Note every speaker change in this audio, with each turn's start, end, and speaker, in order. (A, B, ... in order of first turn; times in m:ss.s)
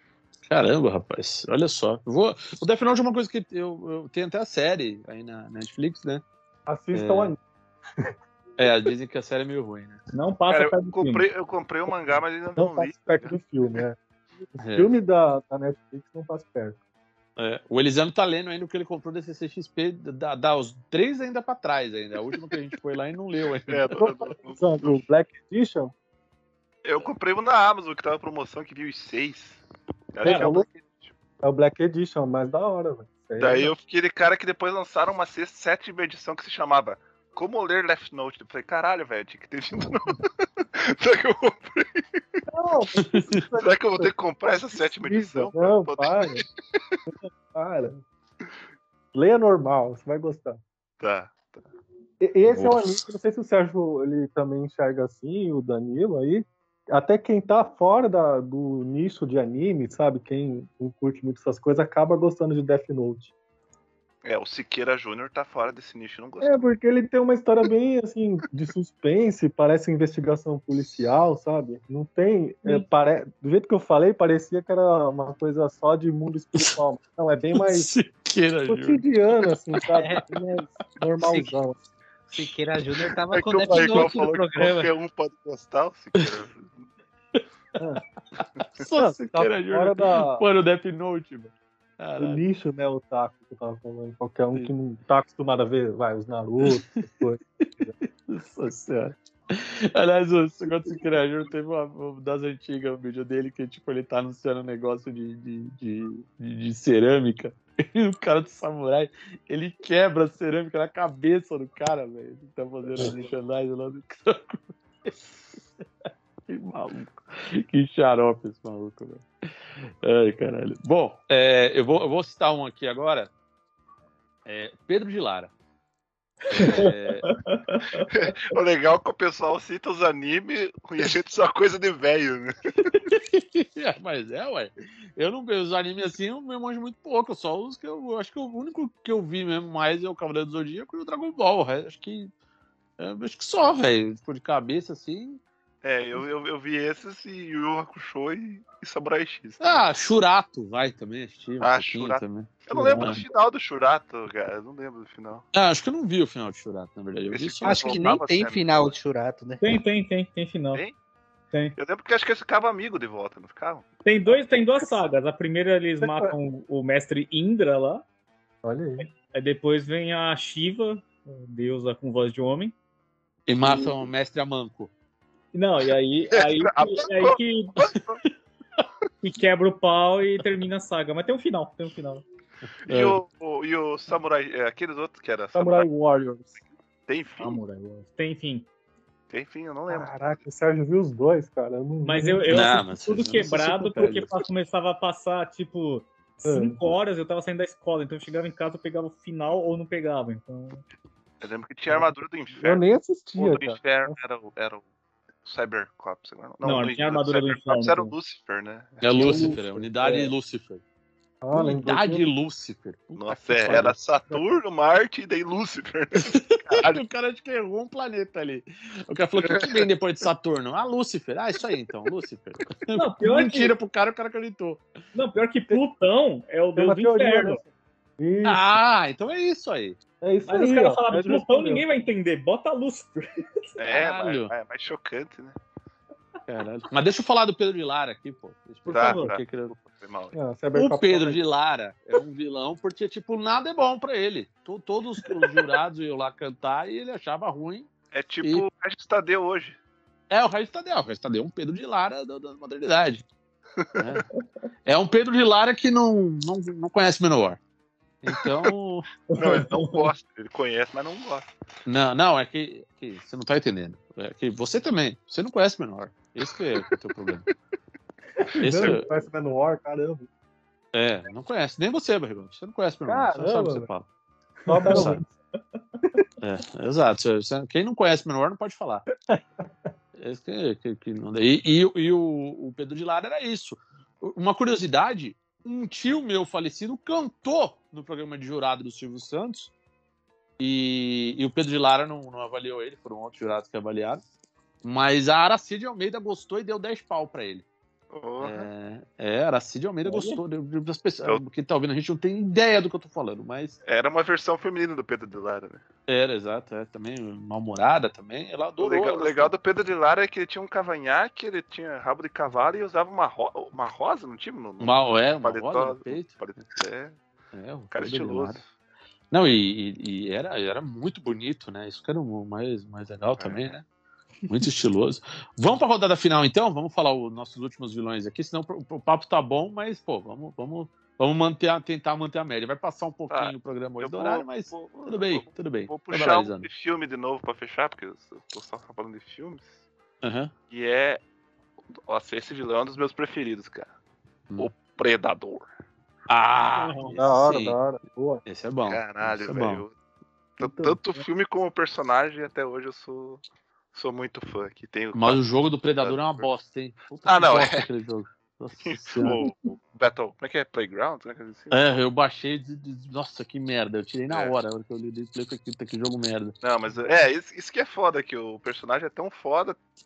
0:00.5-0:06.2 A
0:06.7-0:07.4 B
0:06.9-0:07.3 A
0:08.6-0:10.0 A
0:10.1-0:11.2 C
0:10.5-0:13.4 D
0:12.6-0:14.0 B
0:14.5-0:16.8 B
0:14.6-0:14.9 A
0:17.4-0:24.0 A
0:23.7-0:25.0 D
0:24.0-0:25.9 B
0:26.8-0:29.6 D
0:30.1-0:31.1 D
0:30.2-0:30.6 B
0:30.2-0:30.5 C
0:31.4-0:33.7 B
0:33.4-0:42.4 D
0:42.5-0:44.1 B
0:43.0-0:43.4 A
0:43.6-0:46.8 D
0:45.0-0:46.4 B
0:47.1-0:48.0 B
0:49.1-0:50.6 B
0:51.0-0:51.6 D
0:52.2-1:03.3 B
0:52.5-0:52.8 A
1:04.2-1:06.6 D
1:06.4-1:17.9 B
1:17.6-1:19.1 A
1:18.7-1:21.8 B
1:19.9-1:20.2 E
1:22.3-1:24.9 E
1:23.3-1:26.8 D
1:28.4-1:32.4 A
1:28.9-1:30.4 B
1:32.2-1:37.9 B
1:36.6-1:37.0 A
1:38.0-1:55.2 A
1:56.5-2:03.3 A
2:04.4-2:05.5 A
2:06.5-2:07.3 A
2:06.5-2:08.1 C
2:08.1-2:13.0 D
2:13.1-2:22.3 A
2:23.0-2:25.4 A
2:25.8-2:29.8 D
2:29.6-2:33.2 A
2:31.6-2:35.4 D
2:32.8-2:33.2 C
2:35.5-2:38.1 A
2:37.3-2:38.9 D
2:37.6-2:39.6 E
2:39.6-2:40.8 C
2:41.8-2:43.9 D
2:44.0-2:48.0 C
2:46.0-2:46.3 B
2:48.6-2:49.0 B
2:49.0-2:52.7 C
2:53.5-2:54.9 A
2:55.5-2:57.8 C
2:56.3-2:58.2 D
2:58.2-2:58.8 A
2:59.2-3:02.2 C
3:02.8-3:03.2 A
3:02.9-3:05.9 D
3:05.5-3:06.6 B
3:07.1-3:07.6 D
3:07.4-3:08.7 C
3:09.3-3:10.4 D
3:09.9-3:12.7 B
3:12.0-3:20.8 C
3:12.5-3:14.4 A
3:16.4-3:16.8 B
3:21.4-3:22.8 D
3:21.9-3:24.2 B
3:23.4-3:24.8 D
3:25.4-3:29.6 D
3:26.6-3:28.1 C
3:29.0-3:30.8 A
3:29.2-3:30.3 B
3:31.4-3:32.3 B
3:31.5-3:34.0 A
3:33.2-3:37.0 D
3:36.2-3:44.8 A
3:39.4-3:39.8 D
3:42.9-3:43.7 C
3:45.1-3:47.6 C
3:46.8-3:47.6 B
3:48.2-3:48.7 B
3:48.4-3:50.0 A
3:50.2-3:51.8 B
3:50.5-3:53.7 C
3:53.8-3:55.6 D
3:53.9-3:54.5 A
3:56.5-3:59.7 A
3:58.8-3:59.3 C
3:58.9-4:00.4 D
4:00.3-4:01.4 B
4:00.7-4:07.9 A
4:05.2-4:05.6 C
4:08.1-4:09.8 D
4:10.3-4:13.2 A
4:14.0-4:14.2 A
4:14.8-4:17.6 A
4:18.2-4:19.1 A
4:19.3-4:20.1 C
4:19.4-4:21.5 D
4:21.8-4:27.4 A
4:28.5-4:30.3 B
4:28.6-4:29.0 A
4:30.9-4:34.1 A
4:33.0-4:33.9 B
4:34.7-4:35.2 B
4:34.7-4:35.2 C
4:34.8-4:35.2 A
4:36.4-4:39.0 A
4:39.3-4:39.9 B
4:40.2-4:49.7 A
4:50.6-4:54.2 A
4:54.8-4:57.6 A
4:58.1-4:58.7 D
4:58.4-5:03.8 A
5:00.0-5:00.4 C
5:03.8-5:05.8 D
5:06.1-5:09.5 A
5:08.8-5:17.2 D
5:14.8-5:16.4 A
5:17.5-5:18.6 A
5:17.9-5:18.6 D
5:19.3-5:23.8 A
5:23.4-5:23.7 D
5:24.5-5:36.7 A
5:33.3-5:39.7 D
5:40.2-5:40.5 A
5:40.7-5:41.2 D
5:42.0-5:43.9 D
5:44.6-5:45.7 D
5:46.3-5:47.8 A
5:46.8-5:47.2 C
5:47.2-5:48.4 B
5:48.4-5:49.8 A
5:48.9-5:49.9 D
5:50.6-5:53.4 D
5:50.6-5:51.0 B
5:53.9-5:55.4 D
5:55.1-5:59.4 A
5:56.0-5:56.5 D
5:57.2-5:57.8 D
5:58.8-6:01.8 D
6:01.7-6:06.5 A
6:04.3-6:04.6 D
6:06.6-6:09.8 D